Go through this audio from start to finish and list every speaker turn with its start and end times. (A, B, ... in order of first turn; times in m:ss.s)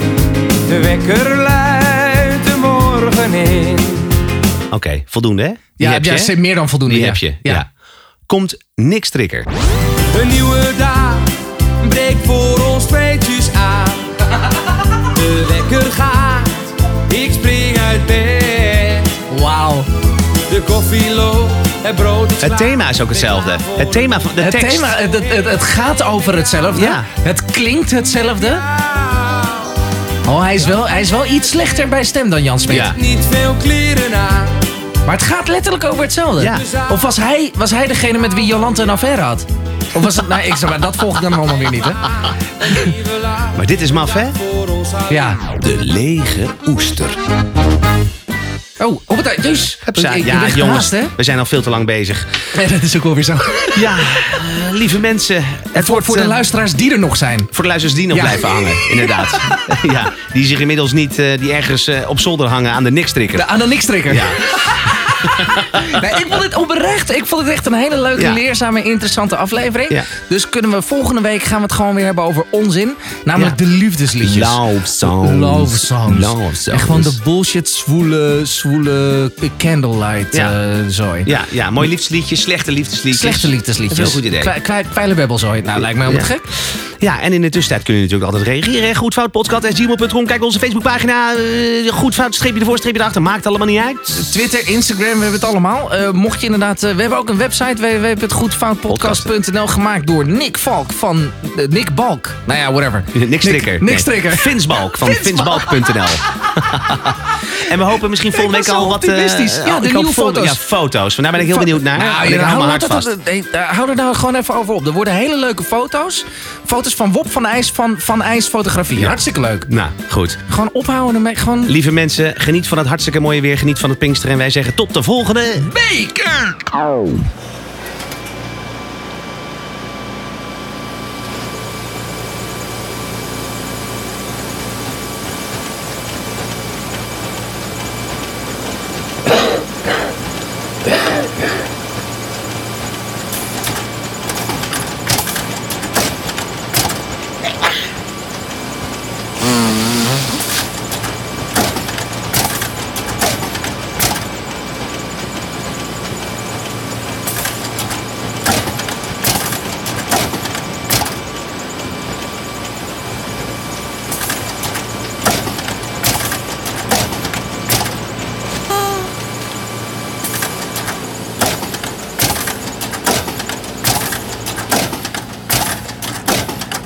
0:00.6-0:04.1 A
0:04.7-0:06.3 B
0:05.8-0:07.6 C
0:06.8-0:07.7 B
0:08.3-0:09.5 B
0:10.1-0:19.2 A
0:19.3-0:19.9 C
0:20.5-0:24.3 A
0:22.4-0:25.0 B
0:24.4-0:28.6 C
0:26.7-0:27.1 B
0:29.1-0:29.5 A
0:30.2-0:33.0 C
0:32.7-0:33.0 B
0:32.9-0:34.6 A
0:35.0-0:42.0 C
0:36.4-0:36.6 B
0:36.6-0:36.9 A
0:42.7-0:45.3 A
0:43.5-0:44.4 B
0:45.1-0:45.4 C
0:45.6-0:47.2 B
0:48.8-0:51.1 C
0:49.8-0:52.5 B
0:52.5-0:54.1 C
0:53.7-0:56.4 B
0:55.7-0:57.5 C
0:57.5-1:03.5 B
0:58.1-0:59.5 C
1:03.3-1:21.3 C
1:04.1-1:04.6 B
1:05.1-1:05.9 B
1:14.2-1:17.2 B
1:21.2-1:24.5 B
1:23.1-1:26.4 C
1:25.8-1:26.3 B
1:27.0-1:34.3 B
1:34.1-1:46.1 C
1:38.9-1:39.3 B
1:43.1-1:53.1 B
1:48.3-1:50.6 C
1:51.4-1:59.7 C
1:59.0-2:00.4 B
2:00.5-2:01.7 C
2:01.7-2:05.7 B
2:05.6-2:06.8 C